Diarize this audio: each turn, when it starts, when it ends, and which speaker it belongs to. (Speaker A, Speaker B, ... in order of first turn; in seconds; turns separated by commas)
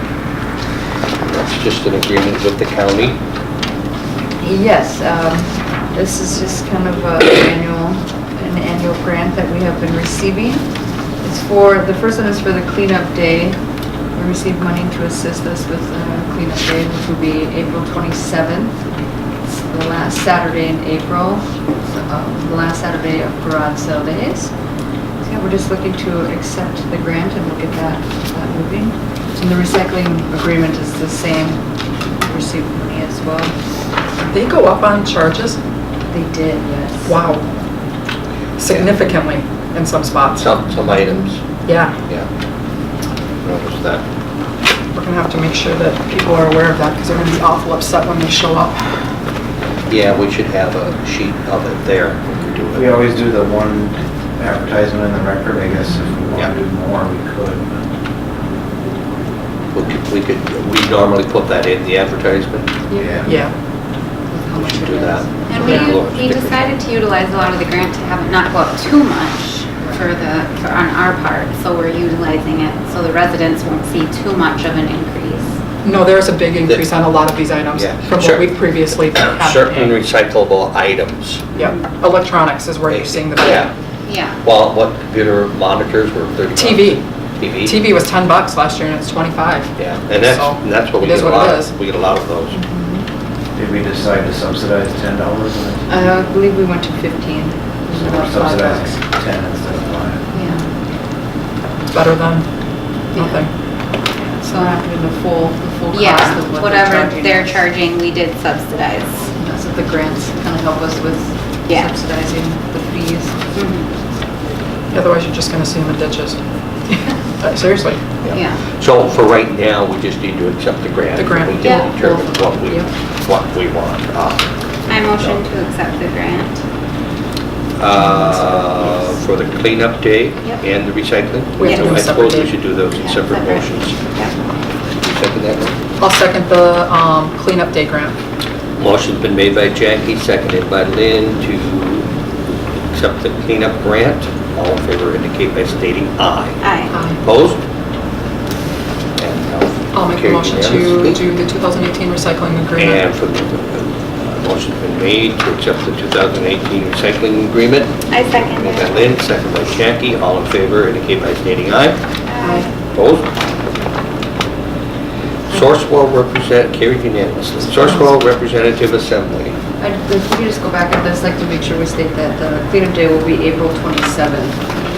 Speaker A: 1.2-3.2, Speaker B: 4.4-10.6, Speaker B: 11.2-13.6, Speaker B: 14.1-18.7, Speaker B: 19.4-24.5, Speaker B: 25.2-31.6, Speaker B: 32.2-33.5, Speaker C: 34.2-35.6, Speaker B: 36.1-37.2, Speaker C: 37.0-37.5, Speaker C: 38.6-40.8, Speaker A: 40.4-41.4, Speaker C: 41.6-42.0, Speaker A: 43.4-44.0, Speaker C: 44.9-48.9, Speaker A: 49.9-52.9, Speaker D: 52.7-57.8, Speaker A: 59.7-62.7, Speaker B: 62.9-63.4, Speaker D: 63.0-63.3, Speaker C: 63.2-63.5, Speaker B: 64.3-65.8, Speaker A: 64.5-66.7, Speaker E: 65.5-75.5, Speaker C: 65.6-65.9, Speaker C: 75.8-80.0, Speaker A: 77.7-81.5, Speaker C: 81.5-83.7, Speaker A: 82.9-83.7, Speaker E: 84.0-84.4, Speaker A: 84.4-87.8, Speaker C: 86.5-87.0, Speaker C: 87.6-91.7, Speaker A: 89.8-92.6, Speaker B: 92.5-93.0, Speaker D: 93.5-96.0, Speaker B: 95.9-98.9, Speaker D: 98.0-100.2, Speaker B: 100.3-100.7, Speaker E: 100.3-100.6, Speaker C: 101.9-102.5, Speaker C: 103.1-103.5, Speaker B: 104.2-107.6, Speaker E: 105.9-109.3, Speaker B: 109.3-113.4, Speaker E: 113.5-113.9, Speaker C: 114.9-118.0, Speaker A: 118.2-124.5, Speaker E: 118.3-118.6, Speaker C: 121.2-122.9, Speaker E: 121.6-121.9, Speaker E: 124.9-126.6, Speaker A: 127.8-134.0, Speaker C: 128.1-128.8, Speaker C: 131.6-132.6, Speaker E: 131.6-132.0, Speaker E: 132.9-134.4, Speaker A: 135.0-135.8, Speaker C: 136.0-138.2, Speaker A: 138.8-142.1, Speaker A: 142.9-146.6, Speaker E: 146.6-146.9, Speaker C: 146.9-147.2, Speaker A: 147.2-147.6, Speaker A: 149.2-151.2, Speaker C: 149.9-153.0, Speaker A: 152.8-162.0, Speaker E: 158.1-159.0, Speaker E: 162.3-162.7, Speaker A: 162.9-163.3, Speaker A: 165.5-169.6, Speaker B: 169.8-174.7